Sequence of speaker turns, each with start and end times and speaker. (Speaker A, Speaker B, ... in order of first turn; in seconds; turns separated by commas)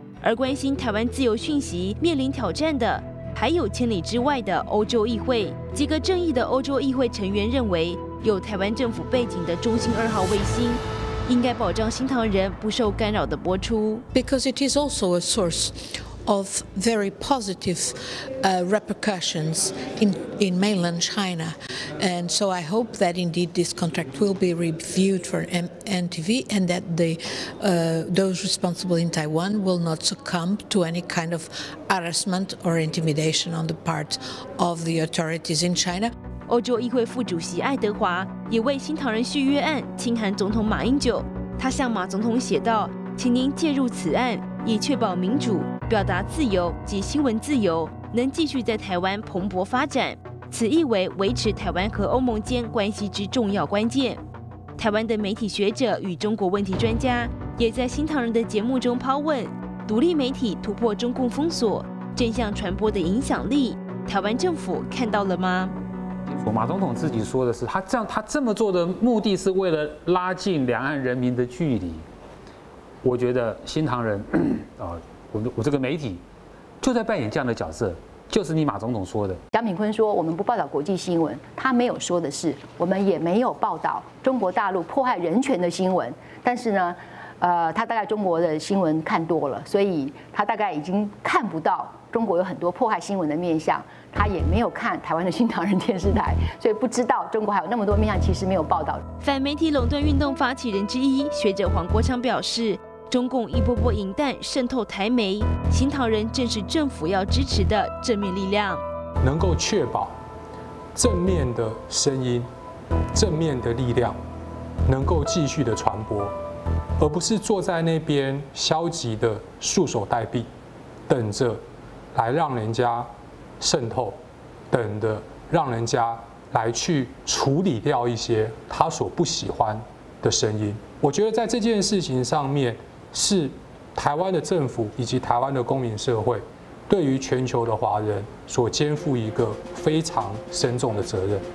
Speaker A: 0.2-14.1, Speaker B: 14.1-36.1, Speaker A: 36.5-54.2, Speaker A: 54.8-65.7, Speaker C: 66.3-72.0, Speaker C: 73.0-76.2, Speaker C: 76.8-79.4, Speaker D: 79.5-99.0, Speaker A: 99.2-108.8, Speaker E: 109.2-110.2, Speaker E: 111.0-112.5, Speaker E: 113.2-114.2, Speaker E: 114.9-116.3, Speaker E: 117.0-120.5, Speaker E: 121.1-121.6, Speaker E: 122.2-123.1, Speaker E: 123.6-124.2, Speaker E: 124.7-141.4